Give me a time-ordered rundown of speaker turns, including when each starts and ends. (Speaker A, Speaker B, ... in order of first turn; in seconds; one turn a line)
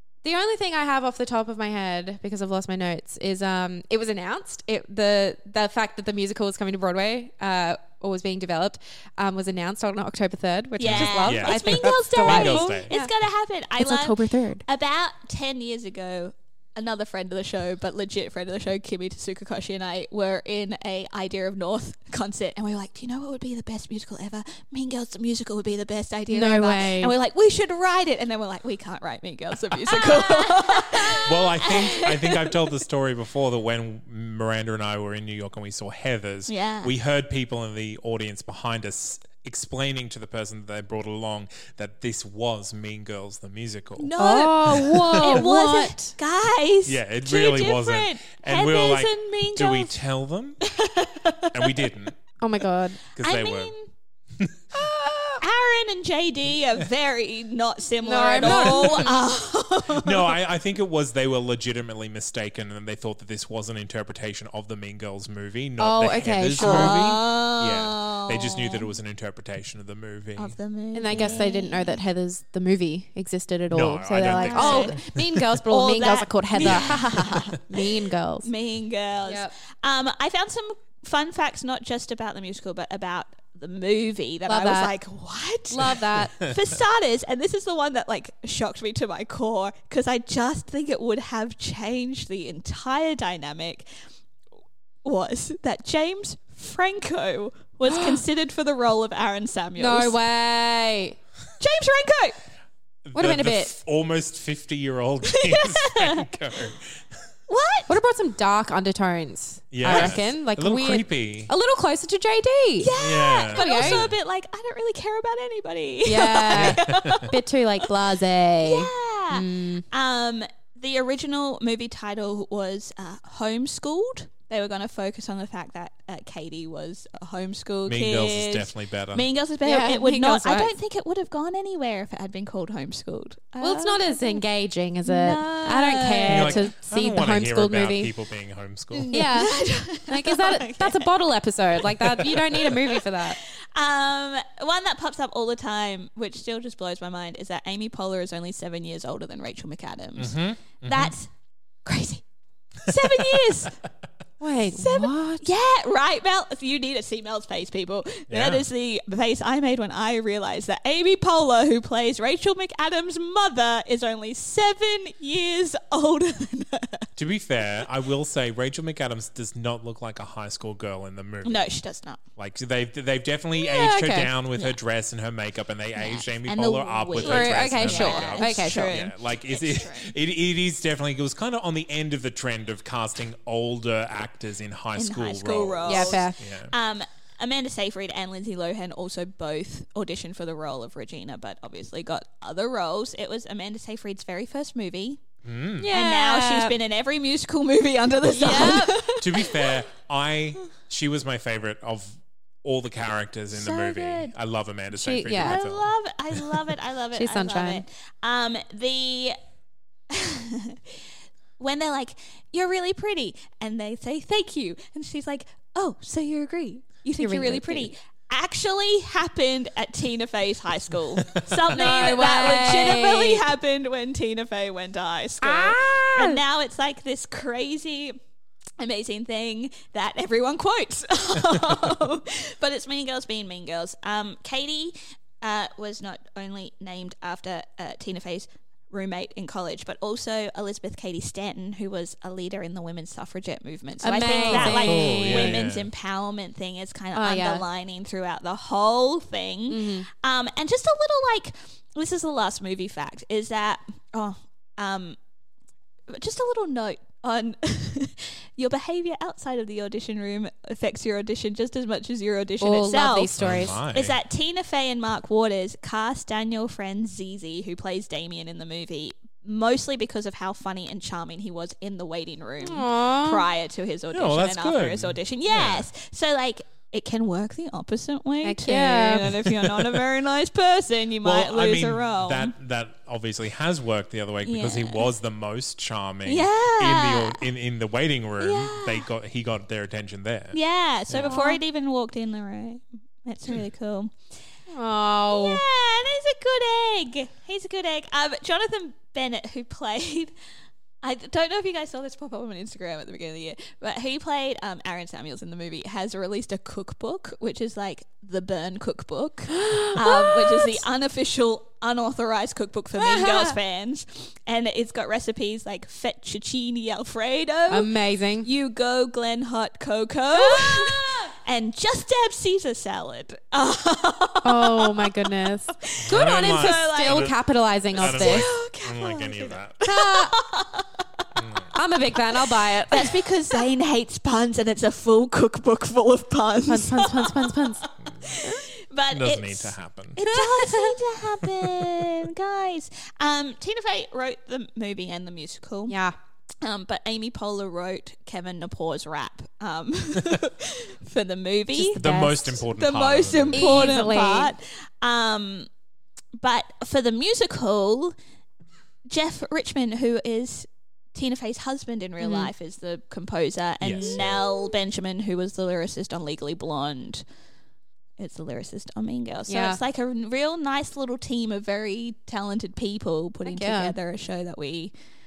Speaker A: 0.2-13.1
Speaker B: 10.8-32.5
Speaker C: 10.8-12.9
Speaker A: 13.8-14.6
Speaker A: 26.3-27.1
Speaker A: 30.1-31.2
Speaker C: 31.2-44.1
Speaker B: 36.5-36.9
Speaker B: 44.0-49.9
Speaker A: 44.2-46.2
Speaker C: 44.7-45.4
Speaker C: 46.9-50.7
Speaker B: 50.6-51.8
Speaker C: 51.5-52.2
Speaker A: 52.4-53.0
Speaker C: 53.1-53.7
Speaker B: 53.2-53.9
Speaker A: 54.8-55.4
Speaker B: 55.4-60.4
Speaker A: 58.0-59.2
Speaker C: 58.4-59.1
Speaker C: 59.9-70.6
Speaker A: 65.8-67.1
Speaker B: 66.6-68.9
Speaker B: 70.4-72.0
Speaker A: 70.9-78.5
Speaker C: 73.7-75.6
Speaker B: 74.4-75.0
Speaker B: 75.7-77.6
Speaker C: 76.6-77.3
Speaker B: 78.4-93.9
Speaker A: 79.3-79.5
Speaker A: 84.5-84.9
Speaker A: 85.7-86.4
Speaker B: 95.0-100.2
Speaker A: 97.9-98.2
Speaker A: 99.8-101.2
Speaker B: 101.6-102.4
Speaker C: 103.0-107.0
Speaker A: 103.2-103.7
Speaker B: 105.3-106.3
Speaker B: 107.5-107.9
Speaker A: 107.9-114.1
Speaker C: 109.7-111.5
Speaker B: 109.8-110.2
Speaker B: 112.8-117.3
Speaker C: 113.0-114.2
Speaker A: 116.0-119.8
Speaker C: 116.5-117.3
Speaker B: 118.6-134.4
Speaker C: 127.9-129.3
Speaker A: 129.7-130.7
Speaker A: 133.6-138.1
Speaker B: 135.1-136.7
Speaker C: 136.3-139.2
Speaker B: 138.9-141.1
Speaker A: 139.1-143.4
Speaker B: 142.7-151.3
Speaker C: 150.2-151.1
Speaker B: 151.8-152.2
Speaker B: 152.8-153.8
Speaker C: 152.9-153.4
Speaker A: 154.4-155.4
Speaker B: 154.7-167.1
Speaker C: 158.3-158.7
Speaker C: 167.2-171.7
Speaker B: 171.4-172.2
Speaker C: 172.4-186.7
Speaker A: 173.6-174.3
Speaker B: 176.0-180.1
Speaker A: 177.2-179.1
Speaker B: 185.0-195.2
Speaker A: 185.9-186.4
Speaker C: 195.4-195.9
Speaker A: 195.8-196.8
Speaker B: 195.9-199.7
Speaker A: 198.3-199.0
Speaker C: 198.4-206.4
Speaker B: 203.5-204.3
Speaker A: 204.9-205.6
Speaker B: 205.4-209.4
Speaker A: 207.2-207.8
Speaker B: 210.1-211.0
Speaker B: 211.6-228.2
Speaker A: 217.2-217.9
Speaker A: 221.7-223.4
Speaker A: 225.4-226.4
Speaker B: 228.8-255.2
Speaker A: 244.0-245.6
Speaker C: 244.4-245.9
Speaker A: 247.2-247.6
Speaker A: 249.7-250.1
Speaker B: 256.1-263.4
Speaker A: 262.6-263.8
Speaker C: 263.4-264.2
Speaker B: 263.9-282.5
Speaker A: 272.6-273.4
Speaker C: 274.1-275.9
Speaker A: 278.4-279.3
Speaker C: 279.5-279.9
Speaker C: 281.2-291.4
Speaker B: 284.4-285.1
Speaker B: 286.3-287.4
Speaker B: 288.4-289.1
Speaker B: 290.5-294.1
Speaker A: 291.2-291.6
Speaker A: 294.7-295.6
Speaker B: 295.3-300.3
Speaker B: 301.0-327.3
Speaker A: 309.5-310.8
Speaker A: 313.0-313.6
Speaker A: 317.7-318.5
Speaker A: 320.3-321.3
Speaker A: 324.4-328.5
Speaker C: 326.0-327.4
Speaker C: 327.9-329.9
Speaker B: 328.0-331.2
Speaker A: 329.9-330.4
Speaker C: 331.4-331.7
Speaker A: 331.7-333.6
Speaker B: 332.9-346.0
Speaker A: 336.7-337.8
Speaker C: 338.1-338.3
Speaker C: 339.1-340.2
Speaker A: 340.2-340.9
Speaker A: 345.9-346.2
Speaker B: 346.6-352.0
Speaker A: 351.7-352.6
Speaker C: 351.9-354.0
Speaker B: 352.6-355.7
Speaker A: 353.5-354.5
Speaker B: 356.4-358.1
Speaker B: 359.1-367.2
Speaker A: 362.2-362.5
Speaker C: 363.8-364.4
Speaker B: 368.2-374.9
Speaker A: 369.5-369.8
Speaker A: 373.4-373.9